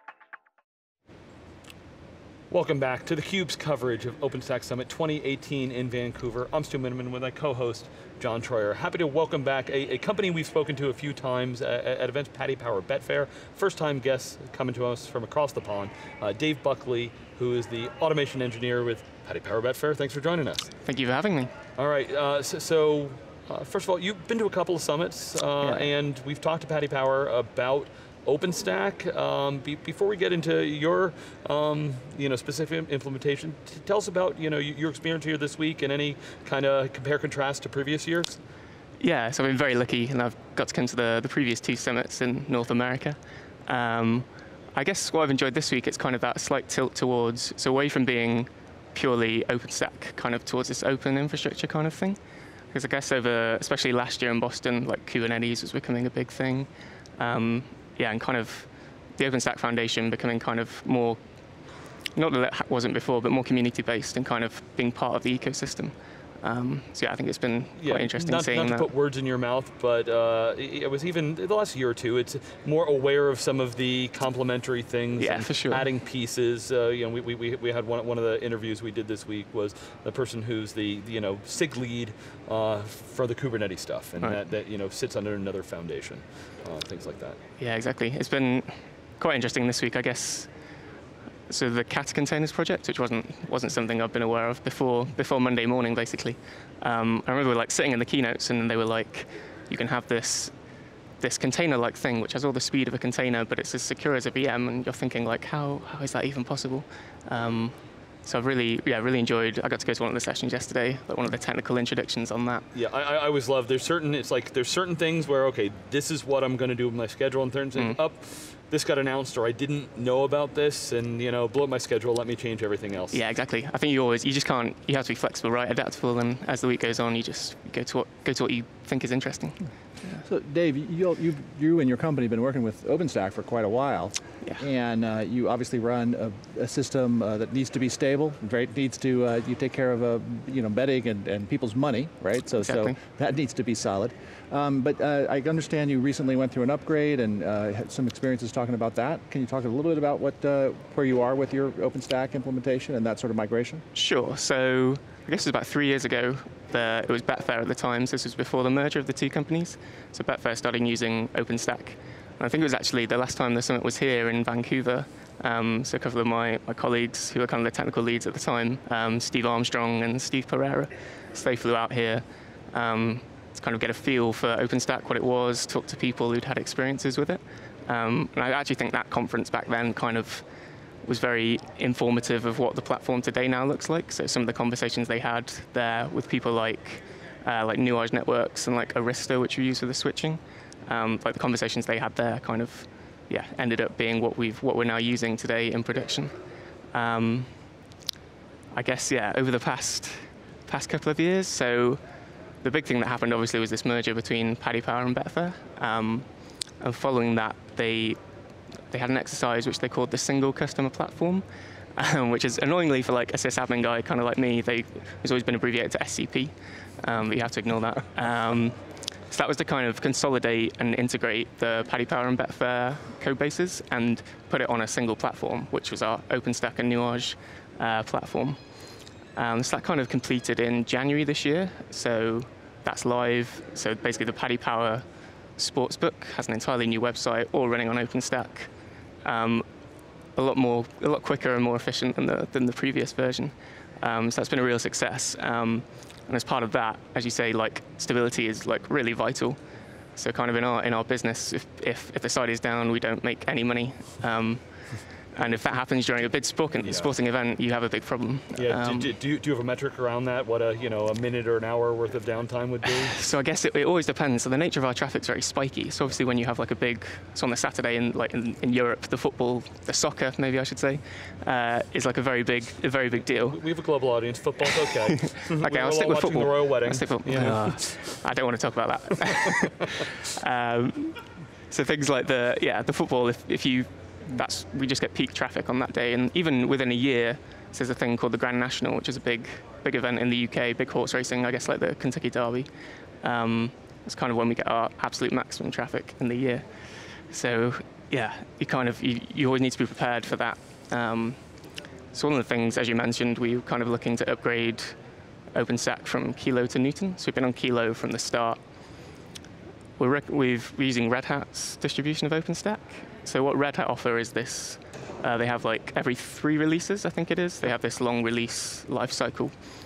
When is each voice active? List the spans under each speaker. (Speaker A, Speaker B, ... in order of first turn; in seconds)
Speaker A: 2.5-20.7, 21.8-38.4, 67.8-87.4, 112.7-123.2, 256.8-257.1, 258.6-263.1, 273.5-278.0
Speaker B: 20.8-21.5, 39.0-52.2, 52.7-61.2, 62.1-68.9, 75.2-75.9, 87.6-88.7, 89.2-90.5, 91.5-100.5, 101.2-112.7, 123.1-130.2, 142.5-142.9, 153.9-180.4, 181.0-196.3, 196.9-197.5, 198.7-202.0, 202.6-206.2, 206.8-208.2, 208.9-211.4, 211.9-218.8, 219.3-228.6, 229.3-235.0, 235.6-238.7, 239.2-239.6, 240.3-249.6, 250.2-254.6, 255.3-259.1, 263.0-273.6, 275.1-281.2, 281.7-292.7, 293.2-296.6, 297.3-301.4, 302.1-304.9, 305.5-308.6, 310.0-319.5
Speaker C: 130.2-153.8